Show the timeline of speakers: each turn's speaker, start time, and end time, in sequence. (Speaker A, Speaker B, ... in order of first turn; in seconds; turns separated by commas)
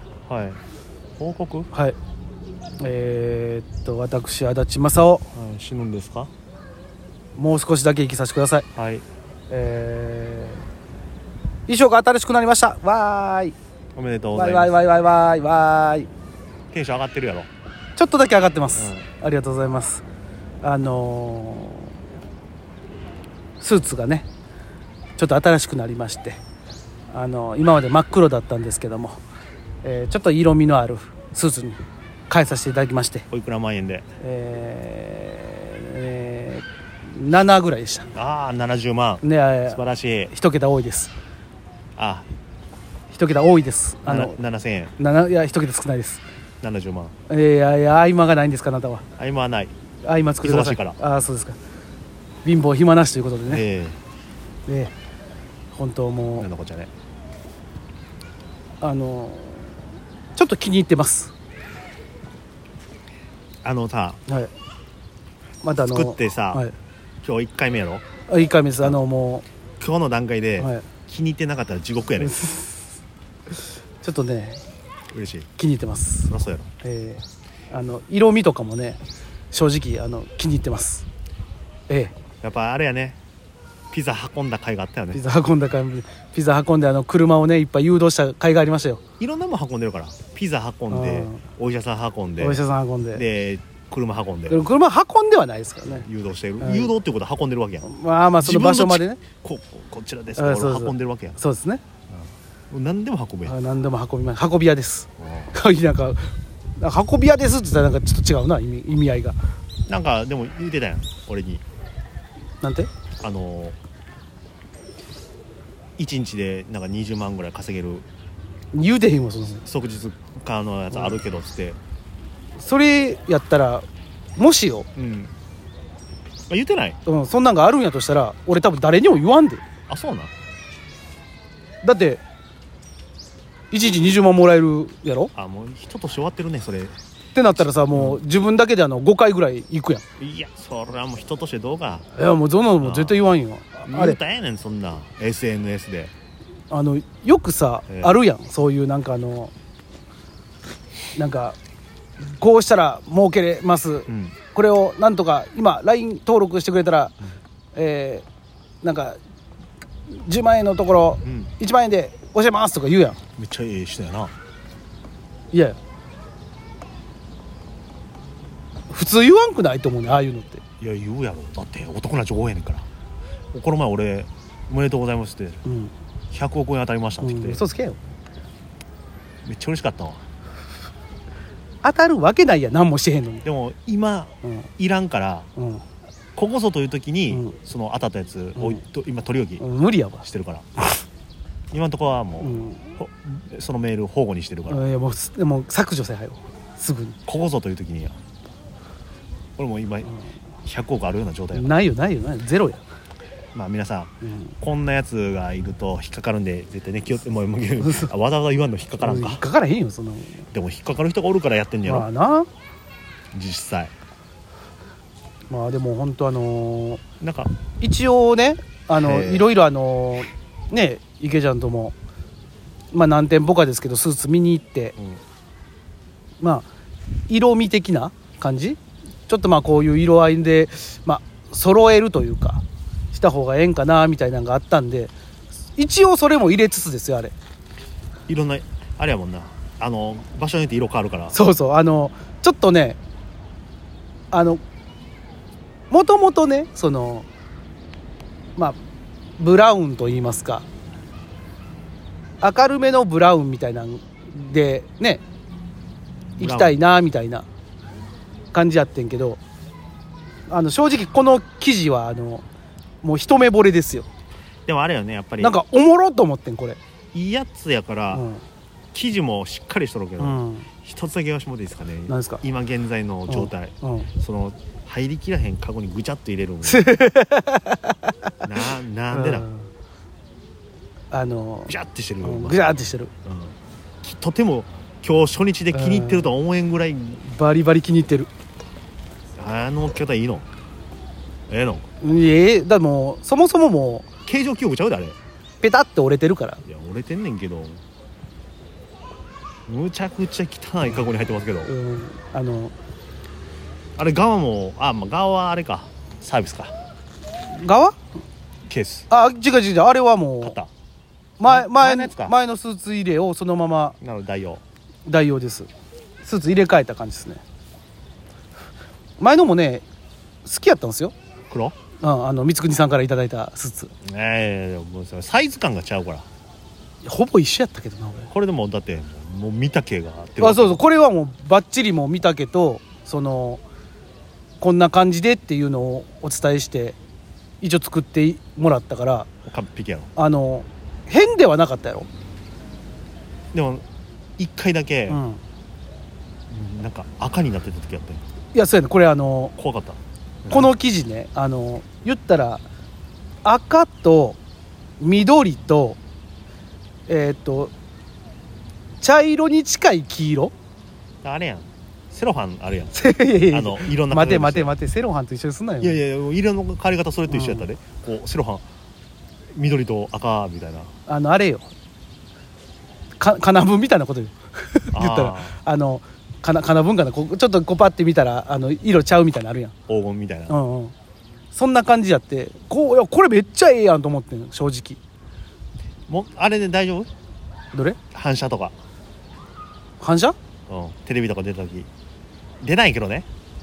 Speaker A: 0.2-0.6, Speaker A: 1.2-1.7, Speaker B: 2.8-5.3, Speaker A: 5.3-6.3, Speaker B: 7.3-8.7, Speaker A: 8.8-9.0, Speaker B: 9.5-10.6, Speaker B: 11.7-13.5, Speaker A: 13.9-14.8, Speaker B: 14.3-16.1, Speaker A: 16.7-17.5, Speaker B: 17.9-20.0, Speaker A: 18.8-19.0, Speaker B: 20.6-21.9, Speaker B: 23.6-24.3, Speaker B: 25.2-26.4, Speaker B: 27.1-29.2, Speaker B: 29.8-33.2, Speaker A: 33.3-34.1, Speaker B: 34.2-38.1, Speaker A: 38.1-40.3, Speaker B: 39.2-41.1, Speaker A: 42.0-42.3, Speaker B: 43.1-44.4, Speaker A: 44.0-44.9, Speaker B: 45.0-46.2, Speaker A: 46.6-47.1, Speaker B: 47.3-49.0, Speaker A: 49.2-49.7, Speaker B: 50.0-51.6, Speaker A: 50.4-51.0, Speaker B: 52.4-53.6, Speaker A: 53.5-54.0, Speaker B: 54.7-54.9, Speaker B: 55.7-56.5, Speaker A: 56.4-56.9, Speaker B: 58.8-59.8, Speaker B: 60.4-61.3, Speaker A: 63.6-64.2, Speaker B: 65.6-66.7, Speaker A: 65.9-66.6, Speaker A: 67.2-68.0, Speaker B: 68.3-69.4, Speaker A: 69.8-72.4, Speaker B: 70.6-70.8, Speaker B: 72.2-72.8, Speaker B: 74.0-74.6, Speaker A: 75.1-75.5, Speaker B: 75.6-79.0, Speaker A: 76.3-76.7, Speaker B: 79.5-81.0, Speaker B: 81.9-82.1, Speaker A: 82.4-83.2, Speaker A: 83.9-85.2, Speaker B: 85.1-89.0, Speaker A: 89.2-92.6, Speaker B: 90.9-91.4, Speaker B: 92.4-93.2, Speaker A: 93.1-94.7, Speaker B: 94.5-96.0, Speaker A: 95.8-97.8, Speaker B: 96.6-96.9, Speaker B: 97.8-99.2, Speaker A: 98.4-101.4, Speaker B: 100.3-101.8, Speaker A: 102.1-103.5, Speaker B: 103.5-109.4, Speaker A: 105.2-105.5, Speaker A: 109.8-111.6, Speaker B: 112.6-112.9, Speaker A: 113.2-113.8, Speaker A: 116.0-118.1, Speaker B: 118.7-119.6, Speaker A: 119.6-121.8, Speaker B: 122.6-123.8, Speaker B: 124.4-124.9, Speaker A: 125.0-125.3, Speaker A: 126.5-127.0, Speaker B: 127.0-129.6, Speaker A: 129.9-130.3, Speaker B: 131.8-132.2, Speaker B: 133.7-135.3, Speaker A: 135.3-137.0, Speaker B: 137.3-140.0, Speaker A: 137.9-138.2, Speaker A: 140.2-142.1, Speaker B: 142.1-144.2, Speaker A: 142.8-143.3, Speaker A: 143.8-146.1, Speaker B: 146.7-149.5, Speaker A: 147.9-148.2, Speaker B: 151.1-151.6, Speaker B: 152.2-157.1, Speaker A: 154.1-154.4, Speaker B: 157.7-158.2, Speaker B: 158.8-159.2, Speaker B: 160.2-163.2, Speaker A: 161.2-161.5, Speaker A: 163.4-164.3, Speaker B: 165.5-165.8, Speaker B: 168.9-170.6, Speaker A: 170.8-172.9, Speaker A: 173.5-175.6, Speaker B: 175.6-175.9, Speaker A: 176.3-177.6, Speaker B: 177.2-178.0, Speaker A: 179.4-180.2, Speaker B: 181.8-183.4, Speaker A: 183.4-185.5, Speaker B: 185.6-185.8, Speaker A: 186.3-189.6, Speaker B: 187.3-187.6, Speaker B: 188.6-188.8, Speaker B: 189.6-190.2, Speaker A: 190.2-190.6, Speaker A: 191.7-194.9, Speaker B: 192.4-192.9, Speaker B: 194.7-197.2, Speaker A: 197.2-198.2, Speaker A: 199.6-201.7, Speaker B: 201.5-202.8, Speaker A: 203.5-209.4, Speaker B: 204.2-204.5, Speaker B: 207.8-208.1, Speaker B: 209.0-210.4, Speaker A: 210.5-212.1, Speaker B: 211.9-212.5, Speaker A: 213.3-213.9, Speaker B: 215.5-217.0, Speaker A: 217.2-217.5, Speaker B: 217.8-221.9, Speaker A: 218.9-219.5, Speaker B: 222.9-224.9, Speaker B: 226.4-226.7, Speaker B: 227.3-235.1, Speaker B: 235.8-237.3, Speaker A: 238.3-241.3, Speaker B: 241.3-243.0, Speaker B: 244.3-244.6, Speaker B: 245.9-247.3, Speaker B: 249.4-250.7, Speaker B: 252.4-255.2, Speaker A: 256.4-256.7, Speaker B: 256.4-257.5, Speaker B: 258.5-259.4, Speaker B: 260.5-262.4, Speaker B: 263.0-264.1, Speaker A: 264.6-265.6, Speaker B: 265.4-266.8, Speaker A: 267.1-268.2, Speaker B: 268.1-268.4, Speaker A: 268.9-276.9, Speaker B: 270.2-270.7, Speaker B: 272.1-272.4, Speaker B: 273.3-274.1, Speaker B: 276.6-278.3, Speaker A: 278.4-279.5, Speaker B: 279.1-279.7, Speaker B: 281.1-283.1, Speaker A: 281.7-287.2, Speaker B: 285.7-286.3, Speaker B: 287.2-288.3, Speaker A: 289.4-290.5, Speaker A: 291.5-291.9, Speaker B: 292.0-294.1, Speaker A: 294.2-295.1, Speaker B: 295.6-296.6, Speaker A: 296.6-297.8, Speaker A: 299.7-301.7, Speaker B: 301.6-302.7, Speaker A: 304.0-306.7, Speaker B: 307.5-308.0, Speaker A: 308.7-309.1, Speaker B: 309.1-310.6, Speaker A: 310.4-310.7, Speaker B: 311.4-313.9, Speaker A: 311.4-312.3, Speaker A: 314.0-314.6, Speaker B: 315.1-315.7, Speaker B: 316.2-317.4, Speaker B: 319.2-319.8, Speaker B: 320.4-321.1, Speaker A: 321.5-321.8, Speaker B: 322.0-323.9, Speaker A: 324.0-326.2, Speaker B: 327.0-328.3, Speaker A: 328.3-330.8, Speaker B: 330.4-333.6, Speaker B: 334.6-337.0, Speaker B: 337.6-339.3, Speaker A: 339.5-340.1, Speaker B: 340.1-342.1, Speaker A: 343.5-343.8, Speaker A: 344.4-345.2, Speaker B: 345.1-345.4, Speaker A: 346.5-348.2, Speaker B: 348.5-349.5, Speaker A: 349.6-350.7, Speaker B: 350.5-352.6, Speaker B: 353.4-354.4, Speaker B: 355.0-356.0, Speaker B: 357.1-357.7, Speaker B: 359.0-360.5, Speaker A: 361.2-364.7, Speaker B: 362.9-366.0, Speaker A: 365.8-368.6, Speaker B: 367.3-367.7, Speaker A: 369.5-370.9, Speaker B: 371.1-371.7, Speaker B: 373.2-379.7, Speaker A: 374.9-375.6, Speaker A: 379.9-380.6, Speaker B: 380.5-380.9, Speaker B: 381.5-385.0, Speaker A: 386.1-387.1, Speaker B: 387.7-388.0, Speaker A: 388.1-388.7, Speaker B: 390.0-390.4, Speaker A: 390.7-391.9, Speaker A: 392.6-393.3